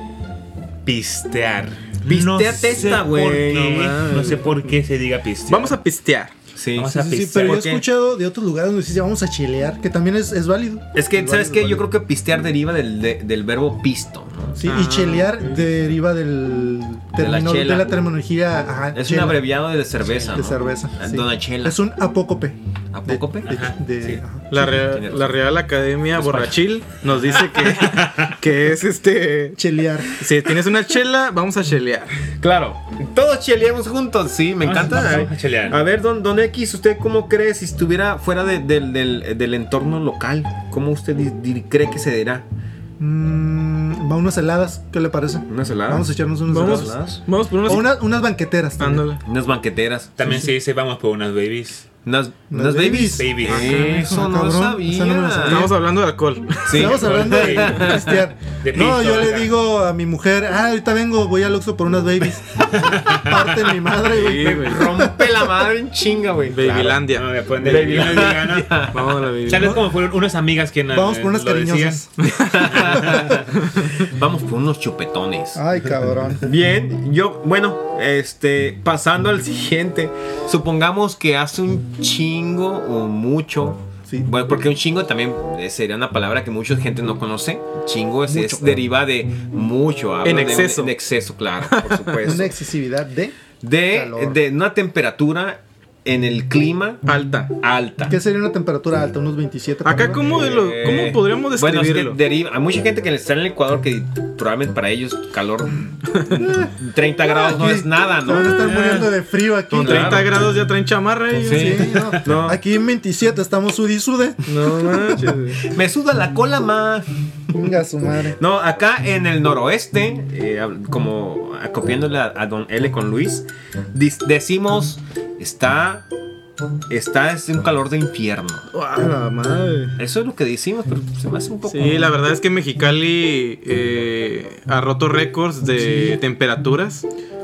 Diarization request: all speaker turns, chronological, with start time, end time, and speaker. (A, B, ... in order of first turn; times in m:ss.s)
0:00.8-0:05.8 A
0:02.0-0:04.4 B
0:03.8-0:04.4 C
0:05.5-0:06.3 C
0:06.6-0:07.8 B
0:06.8-0:07.6 A
0:06.9-0:11.8 D
0:11.0-0:14.6 B
0:14.6-0:19.5 D
0:14.7-0:15.7 C
0:17.2-0:18.0 B
0:18.9-0:21.8 B
0:20.3-0:24.6 D
0:22.9-0:23.6 B
0:23.5-0:24.2 A
0:24.5-0:29.6 C
0:24.7-0:25.4 B
0:26.2-0:26.6 B
0:27.3-0:28.4 A
0:29.6-0:30.2 D
0:30.2-0:32.2 C
0:32.4-0:42.4 B
0:34.6-0:35.8 A
0:43.0-0:47.0 D
0:45.5-0:47.2 B
0:46.5-0:47.9 C
0:47.6-0:49.0 D
0:48.8-0:49.2 C
0:49.2-0:50.4 B
0:50.2-0:51.9 A
0:52.0-0:55.7 B
0:52.5-0:55.7 D
0:53.2-0:54.0 A
0:55.4-0:56.9 C
0:56.7-0:58.1 B
0:56.8-1:05.7 D
0:57.0-0:57.9 A
0:58.6-0:59.5 A
1:02.7-1:03.6 A
1:04.1-1:04.8 C
1:04.4-1:07.1 B
1:06.5-1:08.4 C
1:07.1-1:08.9 A
1:07.6-1:09.0 B
1:08.9-1:09.8 C
1:09.5-1:12.0 A
1:09.6-1:09.8 D
1:10.9-1:12.3 D
1:12.4-1:13.3 B
1:12.7-1:13.4 A
1:12.9-1:13.4 D
1:14.0-1:15.6 B
1:15.6-1:16.4 D
1:16.4-1:32.5 B
1:28.3-1:28.8 D
1:30.2-1:30.9 C
1:31.7-1:32.3 C
1:32.2-1:34.4 D
1:33.6-1:37.0 B
1:37.1-1:37.5 C
1:37.6-1:38.2 B
1:38.1-1:40.2 D
1:39.8-1:42.2 C
1:40.3-1:46.0 B
1:46.1-1:46.5 C
1:46.3-1:46.7 D
1:46.8-1:48.8 B
1:47.2-1:50.3 D
1:48.6-1:49.1 A
1:49.7-1:52.0 C
1:49.8-1:50.3 B
1:51.4-1:52.6 B
1:51.5-1:55.4 D
1:54.5-1:55.6 C
1:55.6-1:57.1 B
1:57.5-1:58.4 D
1:58.4-2:06.0 B
2:06.9-2:08.7 B
2:08.7-2:09.8 C
2:08.9-2:09.9 D
2:10.0-2:12.1 B
2:11.7-2:17.0 C
2:15.8-2:16.2 D